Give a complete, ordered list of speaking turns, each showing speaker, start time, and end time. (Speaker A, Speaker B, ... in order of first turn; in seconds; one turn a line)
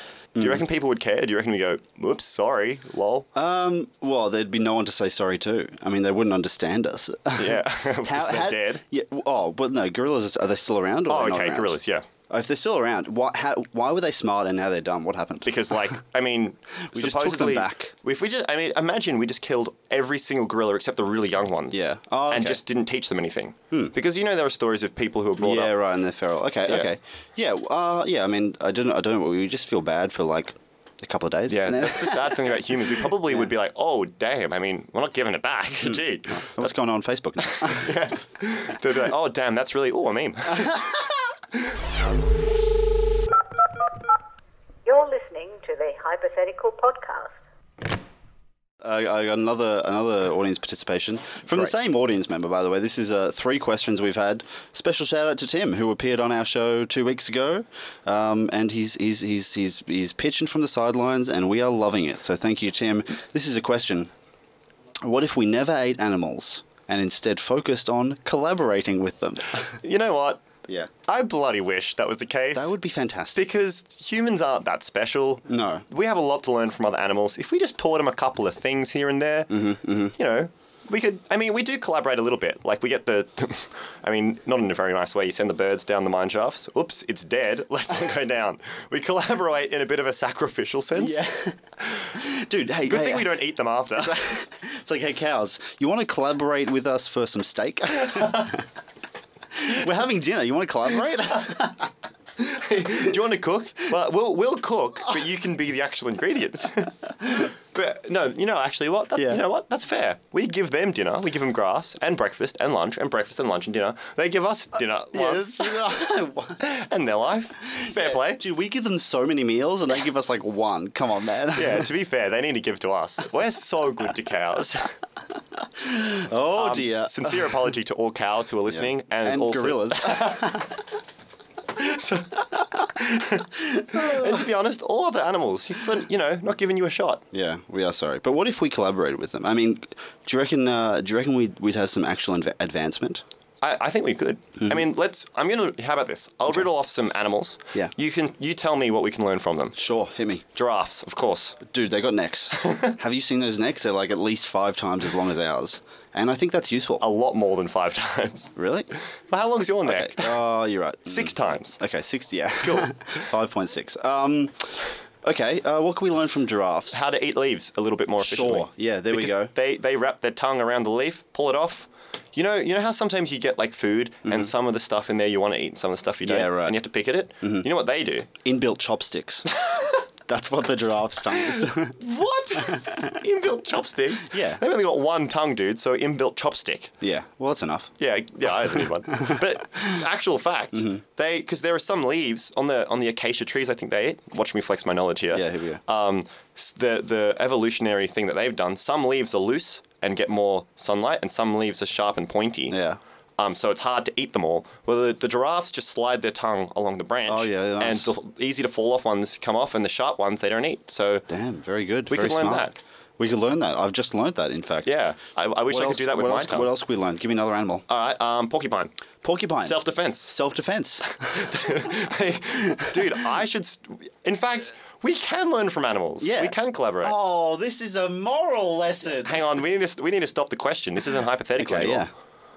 Speaker A: 0.3-0.6
Speaker B: 0.4-3.3
Speaker A: 3.3-11.8
Speaker B: 7.4-8.8
Speaker B: 11.1-12.0
Speaker A: 12.3-15.5
Speaker B: 15.4-25.7
Speaker A: 16.9-17.9
Speaker A: 21.7-22.6
Speaker A: 25.4-32.5
Speaker B: 31.5-36.7
Speaker A: 35.8-38.0
Speaker B: 37.4-40.8
Speaker C: 44.9-47.3
Speaker A: 48.8-64.1
Speaker A: 65.0-69.8
Speaker B: 69.8-70.5
Speaker B: 71.0-72.7
Speaker A: 72.5-73.5
Speaker B: 73.3-91.2
Speaker A: 75.5-75.8
Speaker A: 79.5-80.1
Speaker A: 91.0-91.6
Speaker A: 92.1-93.4
Speaker B: 92.8-94.2
Speaker A: 94.0-98.6
Speaker B: 98.0-98.5
Speaker A: 99.5-101.9
Speaker B: 102.4-115.8
Speaker A: 109.1-109.4
Speaker A: 115.1-116.6
Speaker B: 116.6-118.4
Speaker A: 117.7-121.9
Speaker B: 121.5-124.9
Speaker A: 125.8-127.5
Speaker B: 126.5-130.7
Speaker A: 128.7-130.7
Speaker B: 131.8-137.2
Speaker A: 133.8-134.4
Speaker A: 137.3-143.2
Speaker B: 143.6-149.8
Speaker A: 149.7-150.4
Speaker B: 150.5-151.6
Speaker A: 151.6-157.0
Speaker B: 152.6-153.0
Speaker B: 157.0-158.5
Speaker A: 158.6-158.9
Speaker B: 159.3-160.4
Speaker A: 159.8-167.0
Speaker B: 161.1-161.8
Speaker B: 162.6-162.9
Speaker B: 166.9-178.3
Speaker A: 168.2-169.5
Speaker A: 174.2-174.5
Speaker A: 176.2-176.8
Speaker A: 177.4-177.7
Speaker A: 178.4-179.4
Speaker B: 179.6-180.0
Speaker A: 180.3-182.0
Speaker B: 182.0-186.9
Speaker A: 184.3-184.6
Speaker A: 187.0-187.9
Speaker B: 188.0-202.8
Speaker A: 190.7-191.0
Speaker A: 195.3-195.8
Speaker A: 202.7-203.0
Speaker B: 203.4-211.3
Speaker A: 207.3-208.1
Speaker A: 211.3-214.9
Speaker B: 212.1-212.7
Speaker B: 214.8-216.7
Speaker A: 215.7-217.8
Speaker B: 217.9-218.9
Speaker A: 219.2-221.5
Speaker B: 219.6-220.3
Speaker B: 221.2-227.2
Speaker A: 222.7-223.0
Speaker A: 226.2-229.4
Speaker B: 229.2-232.1
Speaker A: 231.6-232.1